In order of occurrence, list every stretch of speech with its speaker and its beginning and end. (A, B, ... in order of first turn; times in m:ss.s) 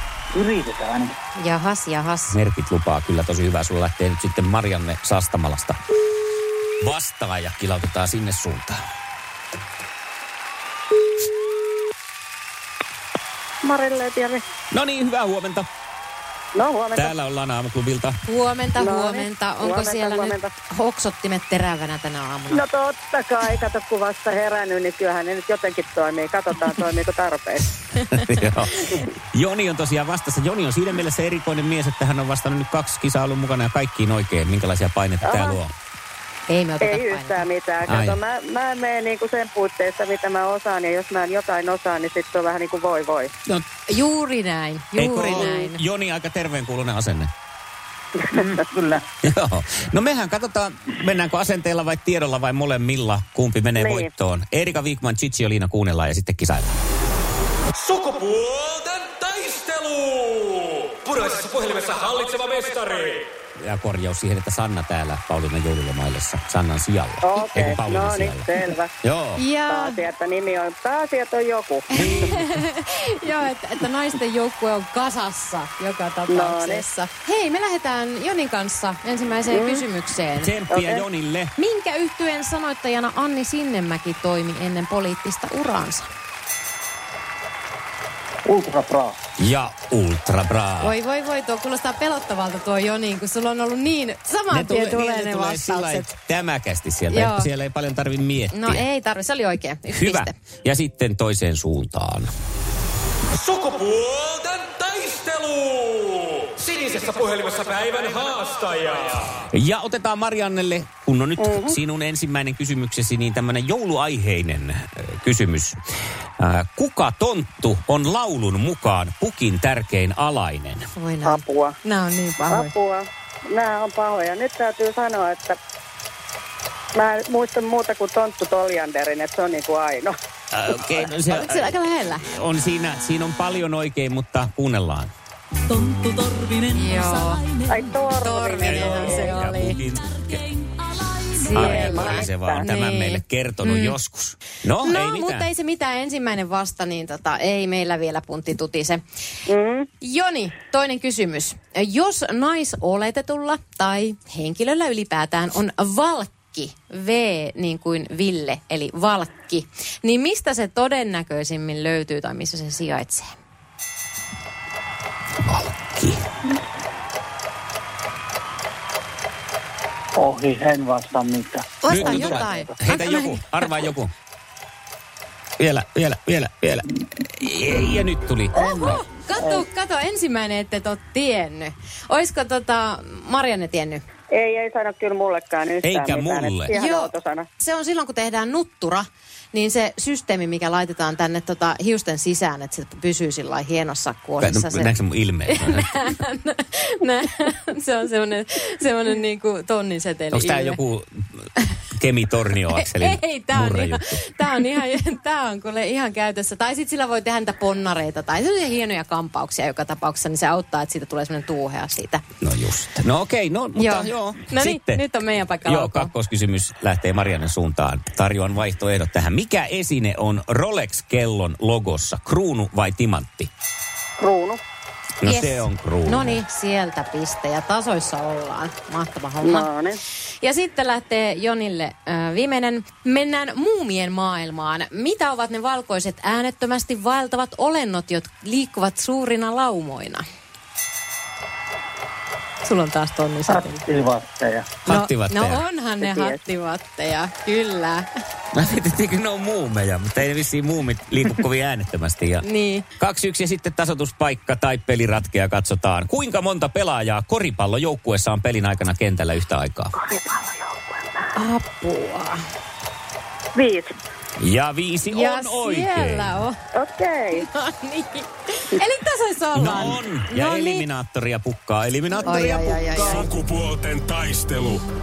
0:00.3-0:01.2 A
0:01.4-0:02.4 B
0:02.3-0:05.8 C
0:06.8-0:08.8 C
0:13.6-0:14.4 D
0:14.7-0:15.7 C
0:16.5-0:17.1 D
0:16.9-0:18.2 C
0:18.2-0:22.6 B
0:18.8-0:20.5 D
0:22.5-0:27.7 D
0:28.1-0:35.7 C
0:35.2-0:35.6 D
0:36.5-0:37.4 B
0:36.8-0:43.3 D
0:37.8-0:38.2 C
0:43.9-0:45.8 B
0:44.9-0:47.3 C
0:48.3-0:49.0 A
0:49.2-0:56.8 C
0:53.8-0:54.1 D
0:57.7-1:03.3 E
1:03.6-1:08.5 C
1:07.2-1:08.9 D
1:09.0-1:09.4 C
1:09.4-1:10.0 B
1:09.7-1:11.9 D
1:11.9-1:20.5 B
1:11.9-1:12.6 C
1:16.3-1:16.8 D
1:19.5-1:19.8 D
1:20.4-1:21.5 C
1:20.7-1:21.0 D
1:21.6-1:26.1 B
1:28.4-1:29.2 A
1:29.4-1:30.9 C
1:30.8-1:36.1 B
1:34.5-1:38.8 C
1:37.1-1:37.5 B
1:38.5-1:40.3 B
1:39.9-1:42.3 C
1:43.3-1:49.3 E
1:49.5-1:55.8 C
1:51.4-1:51.8 D
1:56.4-2:00.9 C
2:00.9-2:02.7 B
2:01.2-2:01.7 D
2:02.5-2:05.6 D
2:06.9-2:10.1 D
2:10.5-2:15.1 C
2:11.2-2:12.3 B
2:15.7-2:17.8 F
2:16.0-2:16.6 E
2:16.7-2:17.4 B
2:17.6-2:19.4 D
2:18.2-2:19.8 B
2:18.6-2:20.5 C
2:20.6-2:21.1 F
2:21.3-2:24.0 B
2:21.5-2:22.6 D
2:21.5-2:25.5 C
2:24.8-2:29.0 B
2:29.5-2:29.9 D
2:30.0-2:43.3 B
2:45.4-2:46.2 C
2:50.2-2:52.7 A
2:51.8-2:53.7 B
2:51.9-2:54.1 C
2:55.6-2:58.6 C
2:58.5-2:59.6 A
2:58.5-3:04.0 B
3:04.3-3:07.4 D
3:05.8-3:06.7 C
3:06.7-3:14.9 B
3:14.4-3:15.9 C
3:15.5-3:20.8 B
3:20.3-3:24.0 C
3:22.7-3:32.2 B
3:32.4-3:35.0 C
3:33.7-3:36.1 B
3:35.6-3:43.5 C
3:44.2-3:44.6 D
3:45.2-3:46.4 C
3:45.2-3:49.7 B
3:49.4-3:50.0 D
3:50.4-4:00.2 B
4:02.6-4:03.8 B
4:03.5-4:04.7 A
4:04.8-4:05.6 C
4:04.8-4:08.1 B
4:06.0-4:06.4 D
4:08.5-4:12.4 C
4:12.4-4:12.8 B
4:13.0-4:19.9 C
4:20.0-4:21.3 D
4:21.3-4:22.4 B
4:23.5-4:23.9 D
4:24.4-4:26.4 C
4:25.1-4:26.6 B
4:26.7-4:27.4 D
4:27.3-4:30.8 B
4:29.5-4:32.7 C
4:32.2-4:33.3 B
4:32.9-4:34.8 G